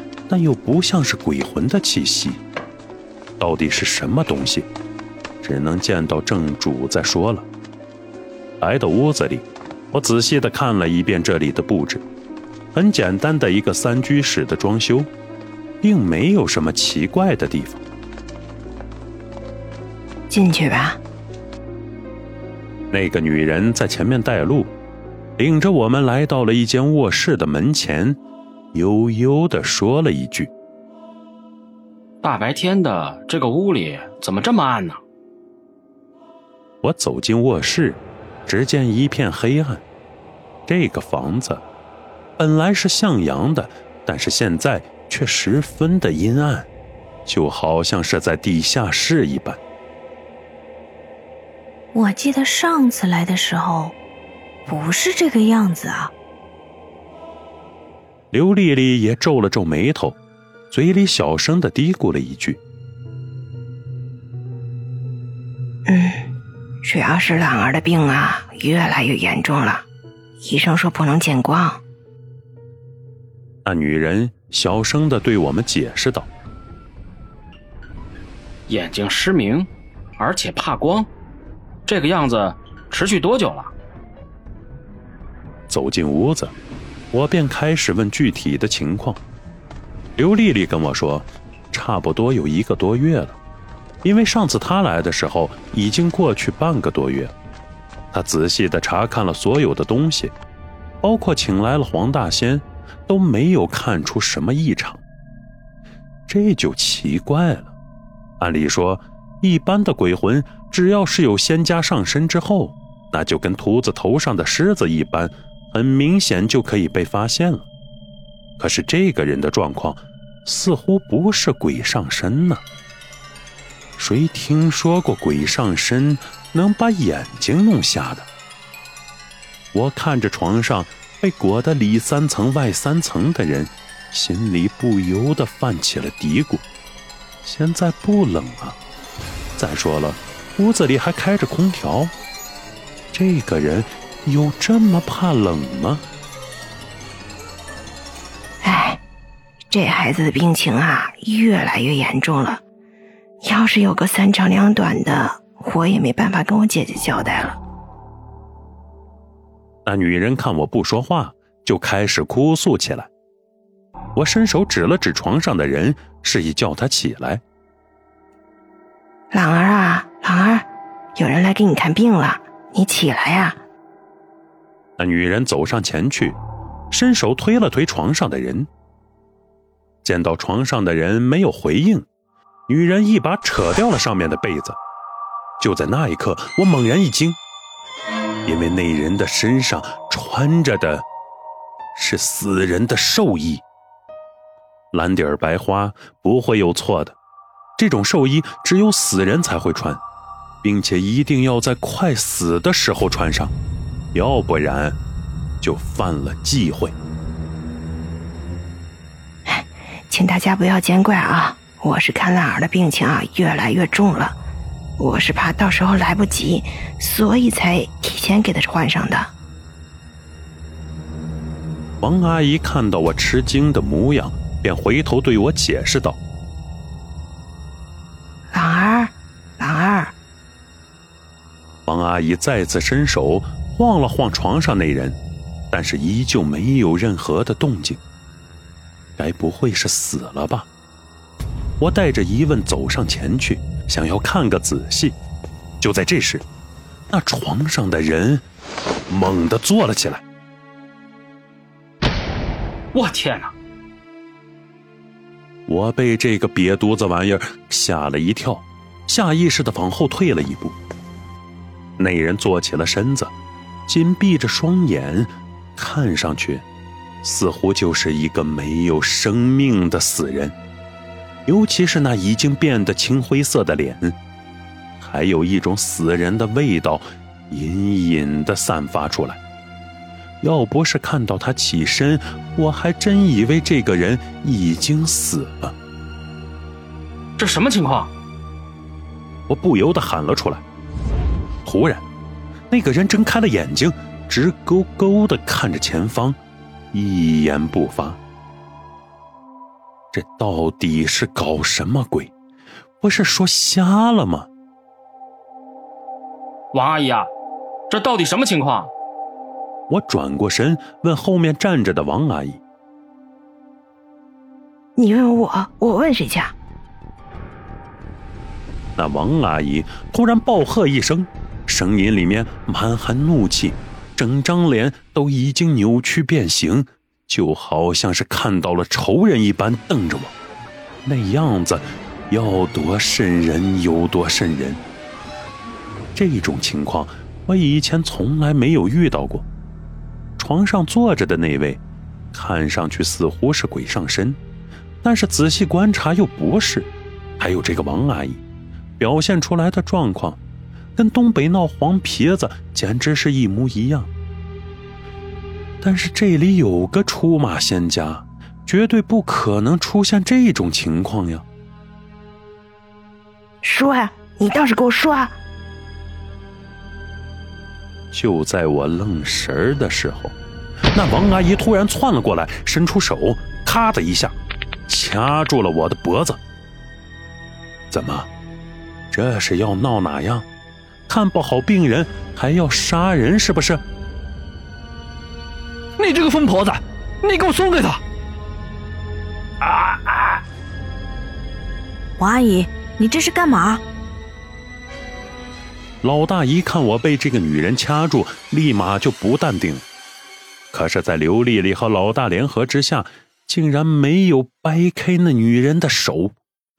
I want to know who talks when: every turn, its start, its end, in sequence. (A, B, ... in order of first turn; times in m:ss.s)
0:00.3-0:02.4 A
0:03.4-0:04.7 A
0:05.4-0:07.5 A
0:08.6-0:12.0 A
0:12.7-0:15.1 A
0:15.8-0:17.8 A
0:20.3-0:21.0 B
0:22.9-0:24.7 A
0:25.4-0:28.2 A
0:28.7-0:30.5 A
0:32.2-0:35.0 C
0:36.8-0:39.8 A
0:40.7-0:41.6 A
0:42.4-0:46.7 A
0:47.2-0:49.6 A
0:51.9-0:53.9 D
0:54.6-0:56.1 D
0:58.3-1:00.2 A
1:00.7-1:02.6 A
1:05.9-1:06.3 B
1:06.8-1:09.9 B
1:10.4-1:11.8 B
1:13.6-1:16.3 A
1:18.7-1:21.1 C
1:21.9-1:23.7 C
1:25.7-1:26.5 A
1:27.1-1:29.2 A
1:30.2-1:33.4 A
1:34.0-1:37.3 A
1:38.1-1:40.3 A
1:41.0-1:45.0 A
1:46.3-1:47.8 A
1:48.4-1:57.7 A
1:58.6-2:02.6 A
2:04.0-2:08.3 A
2:09.7-2:16.6 A
2:17.4-2:18.8 A
2:19.6-2:22.1 A
2:23.1-2:26.0 A
2:28.6-2:29.0 B
2:29.7-2:32.6 B
2:33.4-2:37.6 B
2:39.8-2:43.1 A
2:44.1-2:47.4 A
2:49.3-2:53.6 B
2:55.0-2:56.4 A
2:56.9-2:58.7 A
3:00.0-3:02.1 A
3:02.7-3:04.8 A
3:05.6-3:07.4 A
3:08.4-3:11.0 A
3:11.9-3:13.6 A
3:14.9-3:17.2 A
3:17.8-3:20.0 A
3:20.6-3:23.5 A
3:24.1-3:25.0 A
3:25.6-3:27.0 A
3:29.5-3:34.4 B
3:35.0-3:39.3 B
3:42.0-3:46.2 A
3:48.5-3:50.1 B
3:51.9-3:55.2 A
3:55.7-3:58.0 A
3:59.2-4:00.7 A
4:01.8-4:05.2 A
4:05.8-4:06.4 A
4:07.1-4:08.4 A
4:09.1-4:10.2 A
4:12.9-4:13.5 C
4:15.7-4:20.8 A
4:22.0-4:23.3 A
4:23.9-4:26.6 A
4:27.2-4:30.6 A
4:31.5-4:34.2 A
4:35.0-4:39.4 A
4:40.4-4:45.8 A
4:47.4-4:48.1 C
4:49.5-4:50.6 A
4:51.6-4:52.0 A
4:52.7-4:56.4 A
4:56.9-4:58.2 A
5:00.1-5:02.3 A
5:03.0-5:04.5 A
5:06.7-5:07.3 C
5:07.9-5:08.9 C
5:09.9-5:12.6 A
5:15.0-5:16.6 B
5:19.0-5:30.3 A
5:31.0-5:34.8 A
5:36.1-5:39.5 A
5:40.4-5:41.8 A
5:42.3-5:44.4 A
5:45.0-5:48.4 A
5:49.0-5:50.4 A
5:51.0-5:54.1 A
5:55.8-6:01.4 A
6:03.6-6:05.3 B
6:08.1-6:10.4 A
6:10.9-6:16.4 A
6:17.9-6:18.3 A
6:19.1-6:20.5 A
6:21.1-6:23.8 A
6:26.0-6:28.0 E
6:32.2-6:33.8 D
6:36.0-6:39.8 A
6:40.7-6:46.4 A